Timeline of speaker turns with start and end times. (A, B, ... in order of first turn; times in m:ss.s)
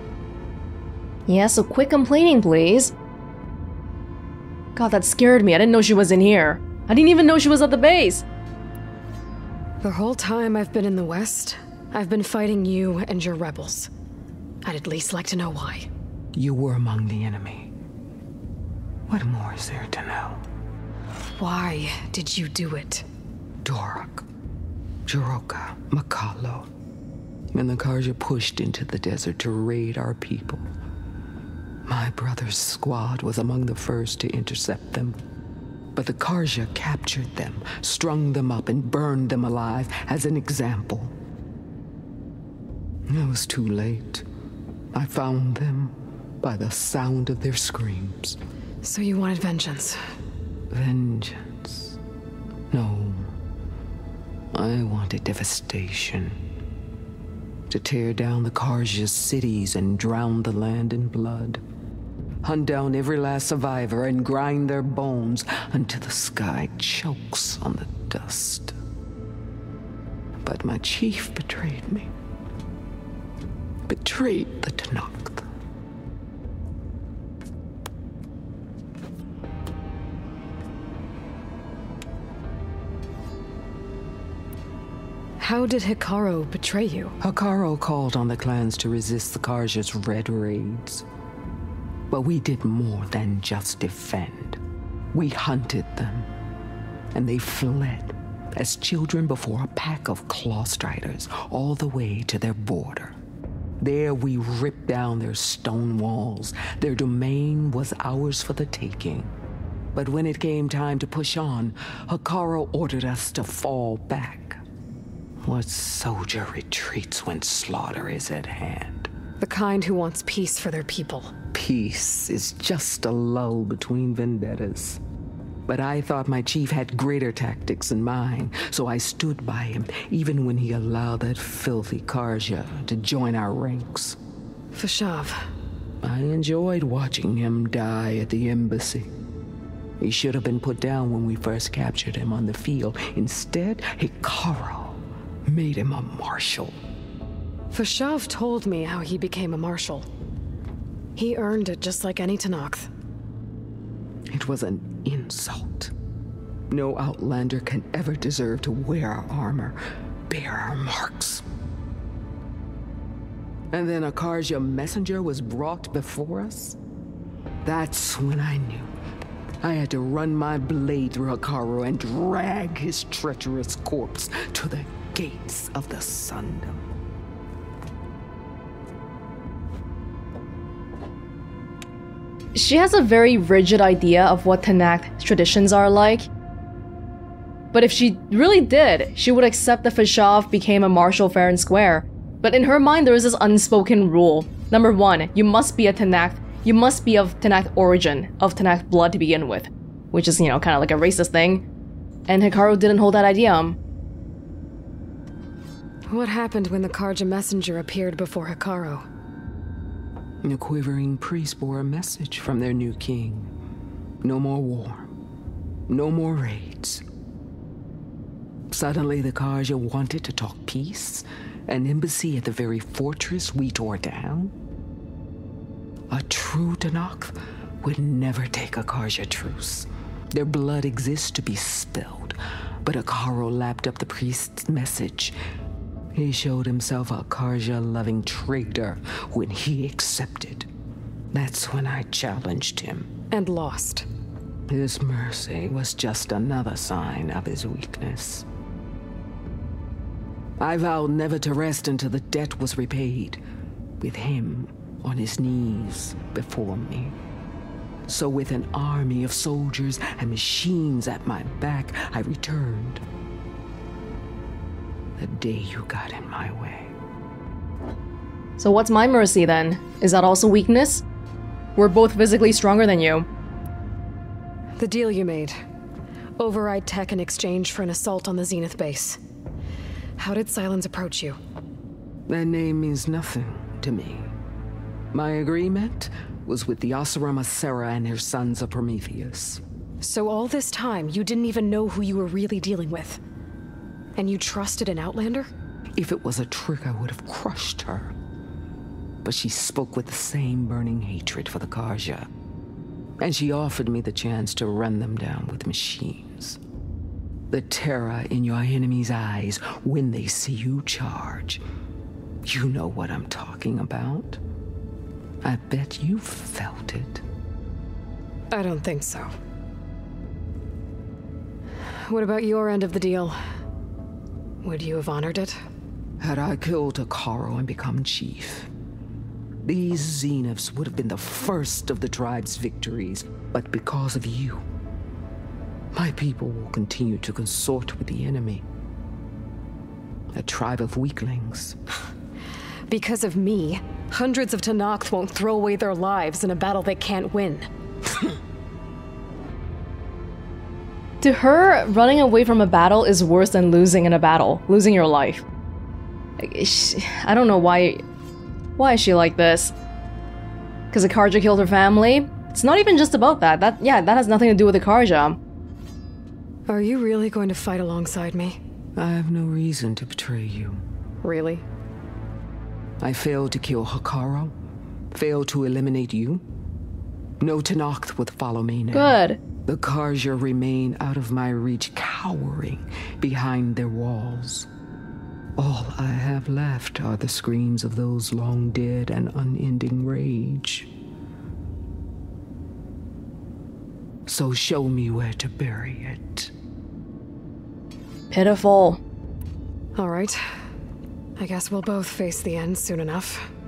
0:01.3-0:02.9 A
0:04.8-0:08.2 A
0:09.8-0:13.9 B
0:14.6-0:15.9 B
0:16.3-0:17.7 C
0:19.1-0:20.4 C
0:21.2-0:23.1 B
0:23.6-0:24.2 C
0:25.1-0:26.7 C
0:27.5-0:30.7 C
0:31.8-0:35.2 C
0:35.9-0:41.1 C
0:43.1-0:44.2 C
0:44.9-0:48.4 C
0:48.8-0:50.0 B
0:50.7-0:52.0 C
0:52.7-0:53.3 C
0:54.5-0:56.4 C
0:57.7-1:01.6 C
1:02.4-1:08.7 C
1:10.4-1:12.1 C
1:13.9-1:15.4 C
1:25.4-1:27.2 B
1:27.2-1:31.0 C
1:32.1-1:34.6 C
1:35.1-1:36.3 C
1:37.1-1:43.2 C
1:43.8-1:49.3 C
1:49.9-1:54.6 C
1:55.4-1:59.1 C
1:59.4-2:01.3 B
2:01.5-2:05.0 C
2:05.7-2:14.2 C
2:14.7-2:15.5 B
2:16.0-2:19.1 C
2:20.0-2:26.8 C
2:27.7-2:30.1 B
2:31.2-2:32.9 B
2:34.3-2:35.9 C
2:36.7-2:39.8 C
2:40.3-2:41.4 C
2:43.7-2:46.8 C
2:47.6-2:48.9 C
2:49.6-2:56.8 C
3:02.5-3:06.3 A
3:07.7-3:21.6 A
3:22.3-3:23.8 A
3:26.1-3:29.0 B
3:30.4-3:33.5 C
3:34.2-3:35.1 C
3:35.9-3:37.0 C
3:38.7-3:44.5 C
3:46.1-3:55.3 C
3:56.1-4:00.7 C
4:01.3-4:03.1 C
4:03.3-4:04.0 B
4:04.7-4:08.4 C
4:10.6-4:13.4 C
4:14.0-4:17.1 C
4:18.1-4:23.0 C
4:25.2-4:26.9 C
4:28.6-4:31.0 A
4:31.8-4:33.3 A
4:34.8-4:35.6 B
4:36.4-4:39.2 B
4:40.2-4:41.4 B
4:42.3-4:44.3 C
4:45.1-4:49.6 C
4:50.0-4:53.2 B
4:54.2-4:55.5 B
4:56.0-4:58.1 C
4:59.2-5:02.3 C
5:03.2-5:06.6 C
5:07.5-5:11.6 C
5:12.4-5:14.4 C
5:15.4-5:17.2 C
5:18.5-5:19.3 B
5:21.9-5:23.4 B
5:24.6-5:25.6 B
5:26.2-5:28.7 C
5:29.6-5:34.6 C
5:35.9-5:38.6 C
5:40.3-5:41.8 C
5:42.9-5:47.7 B
5:51.2-5:55.4 A
5:56.4-5:58.0 A
5:58.8-5:59.7 A
6:00.9-6:05.4 A
6:06.7-6:08.6 B
6:09.0-6:10.8 C
6:11.2-6:11.6 B
6:13.0-6:14.5 C
6:15.1-6:16.4 C
6:17.4-6:24.7 C
6:18.9-6:19.4 A
6:25.6-6:30.9 C
6:34.3-6:36.5 C
6:38.3-6:39.0 A
6:40.0-6:40.4 B
6:41.4-6:43.5 B